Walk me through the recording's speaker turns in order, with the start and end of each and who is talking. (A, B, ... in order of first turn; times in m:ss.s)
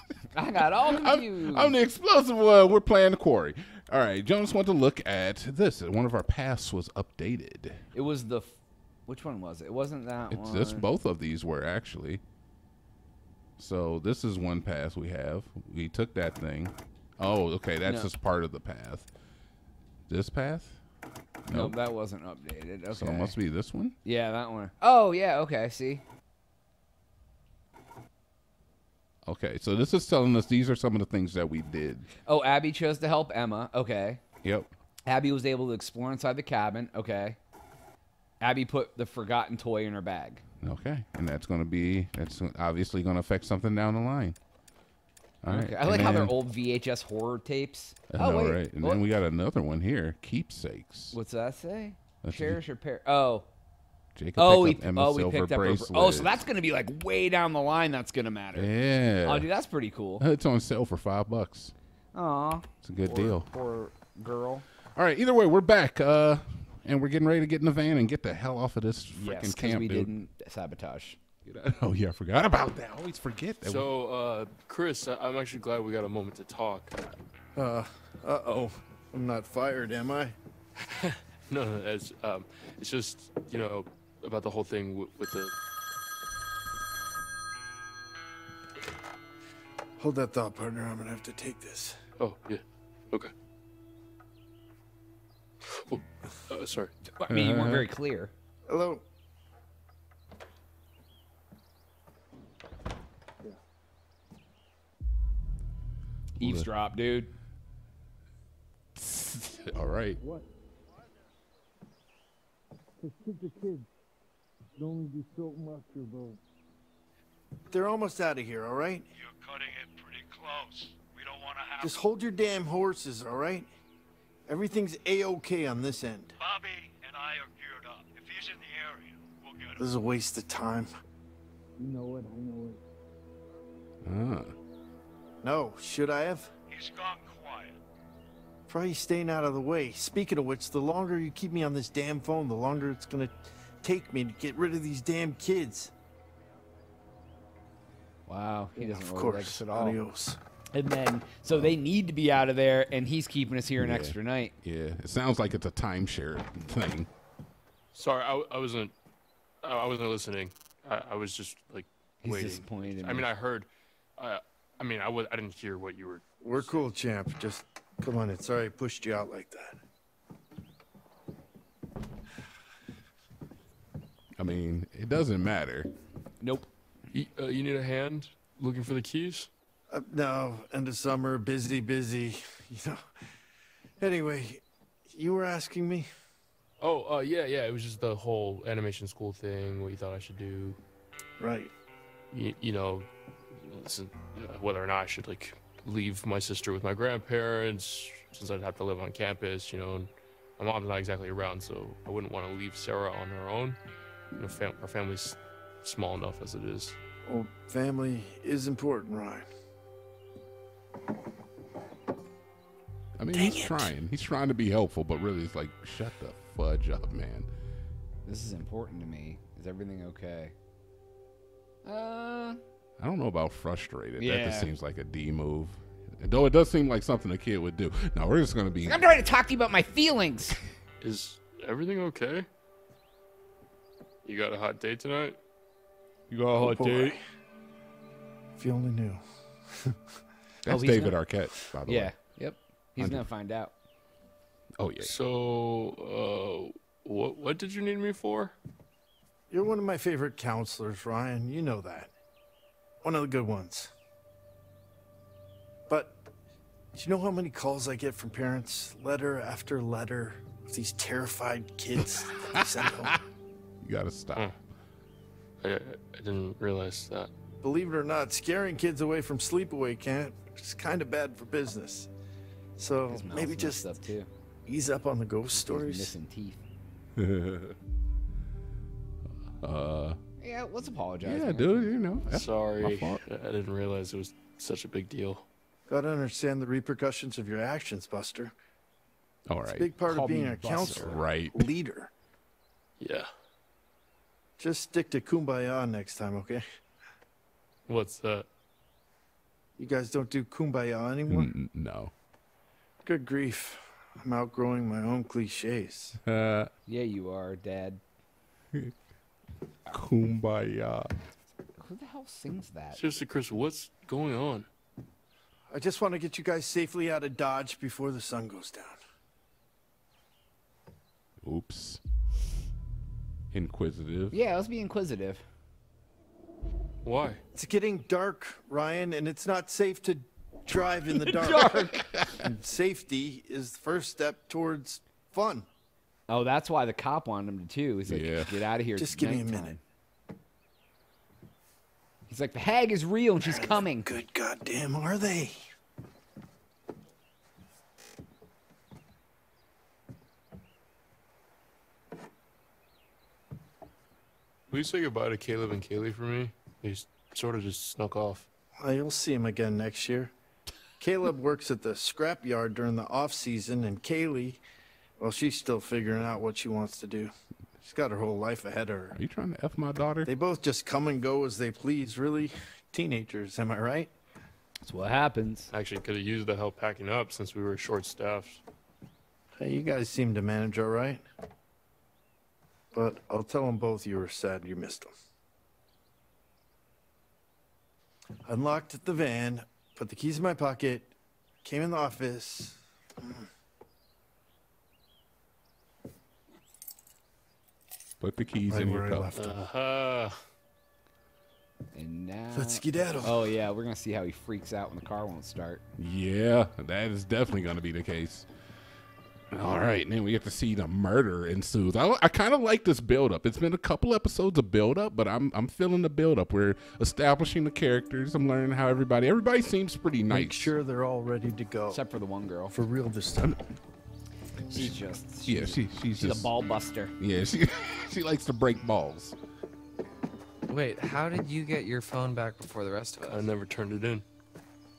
0:00.3-0:01.8 A
0:00.8-0:07.8 B
0:07.9-0:10.9 A
0:10.3-0:12.2 B
0:13.6-0:19.1 B
0:17.8-0:18.1 A
0:20.1-0:20.8 B
0:21.5-0:21.8 B
0:21.5-0:23.4 A
0:22.9-0:24.0 B
0:24.0-0:26.0 A
0:29.2-0:32.1 B
0:32.2-0:34.2 A
0:34.4-0:34.7 B
0:35.1-0:37.4 A
0:38.4-0:40.4 A
0:40.6-0:44.4 B
0:45.4-0:46.4 B
0:45.5-0:49.0 A
0:48.1-0:51.2 B
0:51.1-0:53.5 A
0:52.2-0:52.6 B
0:54.2-0:56.5 B
0:54.4-0:58.7 A
0:58.5-0:59.5 B
0:59.2-1:00.2 A
1:00.2-1:01.7 B
1:02.1-1:04.6 A
1:02.8-1:03.5 B
1:05.0-1:10.1 B
1:09.1-1:11.2 A
1:11.4-1:13.9 B
1:13.6-1:16.9 C
1:17.6-1:20.4 D
1:20.9-1:25.5 C
1:30.0-1:32.0 D
1:32.2-1:33.3 C
1:35.7-1:36.9 C
1:37.2-1:38.3 A
1:37.3-1:37.9 B
1:38.7-1:39.0 D
1:46.4-1:47.3 A
1:46.4-1:46.7 B
1:49.0-1:50.2 B
1:53.0-1:53.9 D
1:54.8-1:56.4 D
1:57.7-1:59.1 D
1:59.3-2:01.9 E
2:01.8-2:03.7 D
2:04.5-2:06.4 D
2:06.4-2:09.7 E
2:09.8-2:10.9 D
2:11.9-2:12.6 D
2:14.0-2:14.6 B
2:15.4-2:16.5 D
2:16.7-2:17.7 E
2:18.7-2:25.9 D
2:28.3-2:30.0 A
2:28.8-2:30.4 D
2:30.7-2:34.6 A
2:31.5-2:31.8 B
2:33.8-2:37.1 B
2:37.9-2:38.9 C
2:39.6-2:46.8 C
2:42.2-2:43.3 A
2:46.4-2:49.8 D
2:54.4-2:55.9 B
2:56.4-2:56.7 A
2:57.1-2:59.5 C
2:59.9-3:03.0 D
3:04.0-3:06.1 D
3:06.8-3:10.8 C
3:11.4-3:11.7 D
3:12.3-3:23.8 C
3:24.4-3:27.0 C
3:27.2-3:29.5 D
3:33.2-3:37.5 B
3:33.3-3:33.9 D
3:38.2-3:40.5 A
3:41.8-3:42.6 A
3:43.0-3:49.1 B
3:44.2-3:44.7 A
3:48.8-3:50.6 A
3:51.0-3:52.5 C
3:54.2-3:55.4 C
3:56.3-3:57.1 B
3:56.5-3:57.2 D
3:58.6-3:59.2 D
4:00.6-4:02.2 B
4:00.7-4:01.2 A
4:01.9-4:03.7 A
4:03.0-4:03.3 B
4:04.8-4:05.1 B
4:05.0-4:08.6 C
4:09.5-4:12.1 D
4:13.0-4:13.9 D
4:15.9-4:16.2 D
4:17.0-4:23.2 D
4:22.2-4:22.6 B
4:23.8-4:24.6 B
4:25.6-4:27.3 C
4:27.6-4:32.1 D
4:32.8-4:34.0 D
4:33.1-4:34.3 A
4:34.7-4:36.2 D
4:35.5-4:36.6 A
4:37.2-4:37.8 B
4:39.6-4:40.2 B
4:40.4-4:41.9 A
4:41.2-4:43.2 B
4:42.3-4:45.4 C
4:45.9-4:48.5 D
4:49.5-4:49.9 B
4:49.7-4:52.1 D
4:50.1-4:51.2 A
4:50.9-4:51.7 B
4:53.0-4:53.3 C
4:54.6-4:56.6 D
4:57.9-4:58.5 C
4:59.8-5:01.5 D
5:01.3-5:02.1 B
5:03.0-5:06.2 D
5:06.2-5:06.7 B
5:06.9-5:08.0 A
5:09.9-5:11.1 B
5:11.8-5:13.0 A
5:12.9-5:14.7 C
5:15.7-5:19.0 D
5:21.4-5:22.0 B
5:23.5-5:24.4 B
5:24.3-5:25.4 A
5:27.0-5:27.4 C
5:27.5-5:35.7 D
5:31.3-5:32.1 A
5:36.3-5:39.8 A
5:38.1-5:38.6 B
5:39.0-5:39.8 D
5:42.3-5:44.1 A
5:43.4-5:45.6 D
5:54.7-5:58.5 C
5:58.8-6:00.3 D
6:01.0-6:04.6 D
6:05.2-6:09.2 D
6:09.1-6:10.3 B
6:10.2-6:14.1 D
6:14.8-6:15.7 A
6:15.7-6:18.6 C
6:19.6-6:21.2 D
6:22.9-6:25.1 D
6:28.5-6:31.1 D
6:31.6-6:33.5 D
6:38.2-6:39.3 B
6:38.7-6:39.6 D
6:39.4-6:40.4 C
6:41.9-6:45.8 A
6:42.5-6:43.4 D
6:46.0-6:48.5 B
6:49.5-7:00.7 B
7:00.3-7:02.0 D
7:01.9-7:02.8 A
7:02.7-7:03.6 D
7:04.7-7:07.1 A
7:05.5-7:06.5 B
7:07.2-7:09.4 B
7:10.7-7:13.5 F
7:13.2-7:14.2 C